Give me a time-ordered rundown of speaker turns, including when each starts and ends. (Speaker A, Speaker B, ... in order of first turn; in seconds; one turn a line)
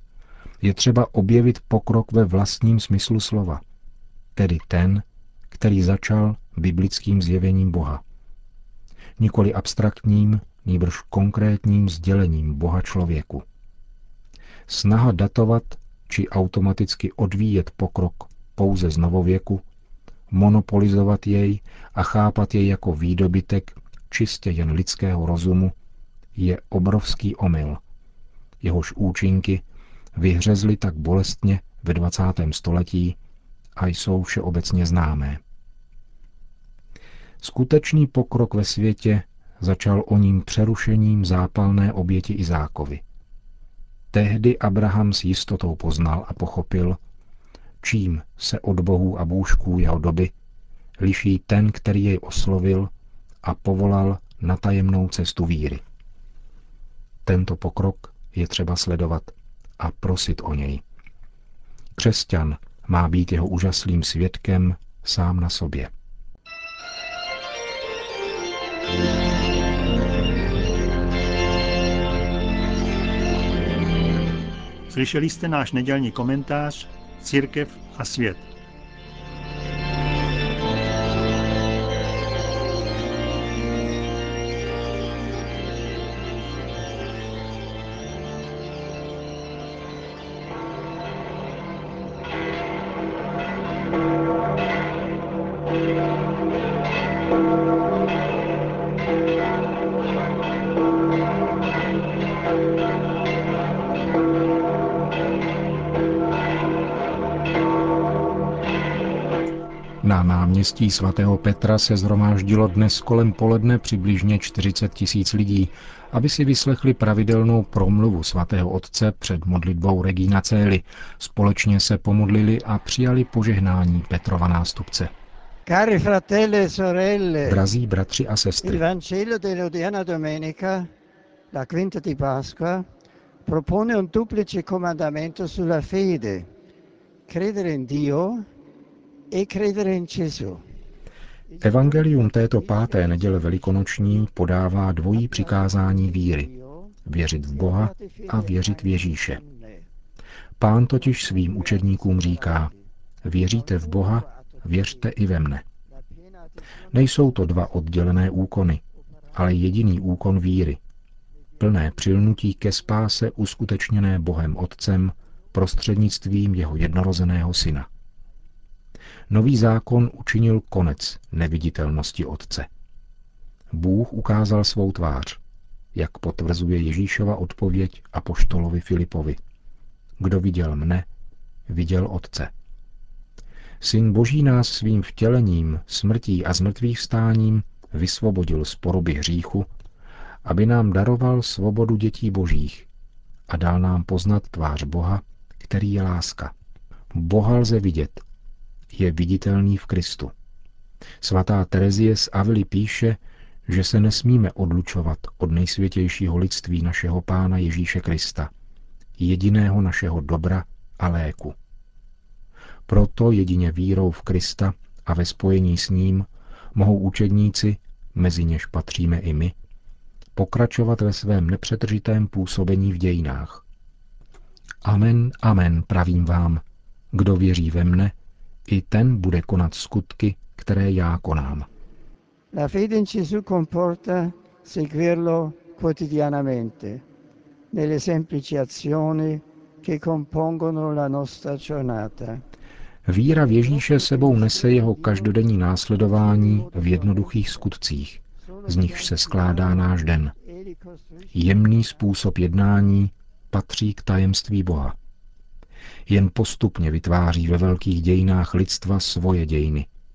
Speaker A: 0.6-3.6
Speaker A: 4.3-8.0
Speaker A: 9.2-13.4
Speaker A: 14.7-19.6
Speaker A: 20.3-25.7
Speaker A: 26.4-27.8
Speaker A: 28.6-29.6
Speaker A: 30.1-33.2
Speaker A: 33.8-35.4
Speaker A: 37.4-43.0
Speaker A: 44.1-47.0
Speaker A: 47.8-50.3
Speaker A: 51.0-52.9
Speaker A: 53.4-55.8
Speaker A: 57.2-60.8
Speaker A: 62.0-65.9
Speaker B: 74.9-78.5
Speaker A: 110.0-125.1
Speaker C: 125.7-127.6
Speaker A: 127.5-128.8
Speaker C: 128.6-130.9
Speaker C: 131.5-132.9
Speaker C: 133.4-136.5
Speaker C: 137.3-138.5
Speaker C: 139.3-140.6
Speaker C: 141.5-144.2
Speaker A: 141.6-146.5
Speaker C: 145.1-149.9
Speaker A: 147.1-149.4
Speaker A: 150.6-152.7
Speaker C: 151.0-152.9
Speaker A: 153.2-155.6
Speaker C: 153.4-155.1
Speaker C: 155.9-157.3
Speaker A: 156.9-160.8
Speaker A: 161.6-167.9
Speaker A: 169.3-172.7
Speaker A: 173.7-175.4
Speaker A: 175.9-179.4
Speaker A: 180.2-181.1
Speaker A: 181.7-182.5
Speaker A: 183.8-189.7
Speaker A: 190.4-192.9
Speaker A: 193.5-196.5
Speaker A: 197.1-198.2
Speaker A: 198.9-200.3
Speaker A: 201.2-208.5
Speaker A: 209.2-211.6
Speaker A: 212.9-219.6
Speaker A: 220.4-223.6
Speaker A: 224.8-226.6
Speaker A: 227.1-228.2
Speaker A: 228.7-231.7
Speaker C: 232.5-237.1
Speaker C: 237.7-242.4
Speaker A: 243.1-250.3
Speaker C: 243.4-245.4
Speaker C: 246.0-247.7
Speaker C: 248.4-252.0
Speaker A: 251.3-254.9
Speaker A: 256.1-259.9